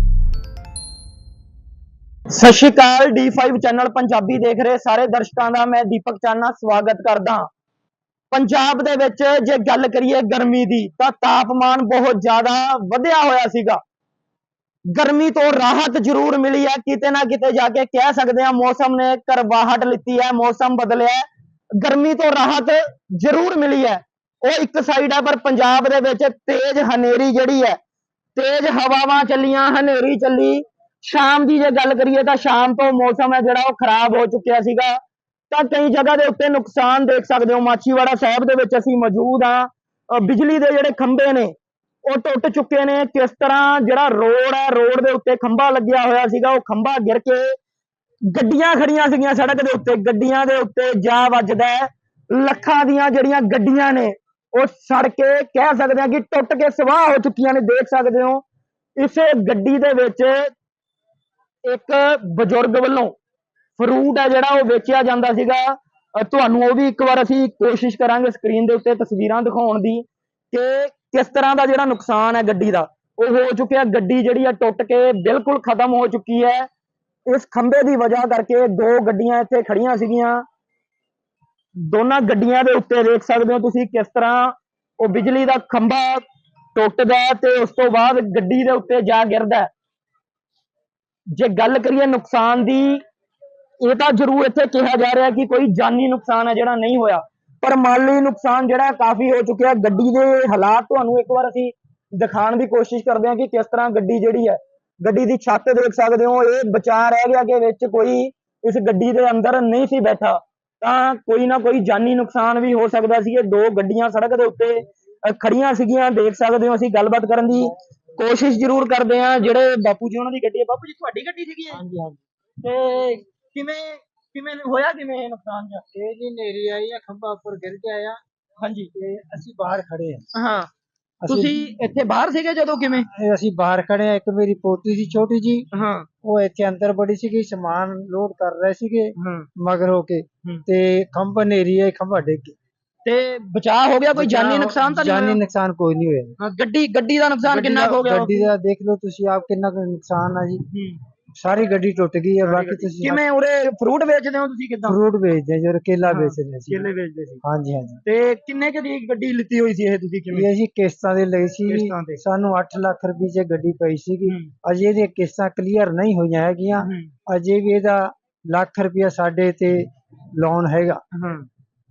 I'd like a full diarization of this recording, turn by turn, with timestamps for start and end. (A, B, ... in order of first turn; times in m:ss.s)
0:02.3-0:07.5 A
0:08.3-0:13.8 A
0:14.9-0:21.2 A
0:21.8-0:27.8 A
0:28.4-0:35.0 A
0:35.5-0:41.5 A
0:42.0-0:47.6 A
0:48.3-0:58.4 A
0:59.0-1:00.5 A
1:01.6-1:03.2 A
1:03.8-1:16.7 A
1:17.3-1:20.4 A
1:21.9-1:26.2 A
1:26.7-1:29.7 A
1:31.3-1:33.0 A
1:33.8-2:01.8 A
2:01.7-2:02.2 B
2:02.6-2:05.8 A
2:05.9-2:08.2 B
2:08.6-2:08.9 A
2:08.9-2:10.2 B
2:10.4-2:10.7 A
2:11.2-2:11.6 B
2:11.3-2:13.0 A
2:13.1-2:15.6 B
2:15.7-2:16.1 A
2:16.2-2:22.6 B
2:19.2-2:19.5 A
2:23.0-2:25.4 A
2:24.1-2:26.3 B
2:26.4-2:28.5 A
2:27.4-2:30.6 B
2:30.7-2:31.0 A
2:31.4-2:33.2 B
2:32.4-2:35.0 A
2:34.8-2:36.8 B
2:36.1-2:37.4 A
2:37.4-2:38.0 B
2:38.0-2:40.5 A
2:40.3-2:51.0 B
2:41.6-2:42.2 A
2:46.8-2:47.1 A
2:51.1-2:51.5 A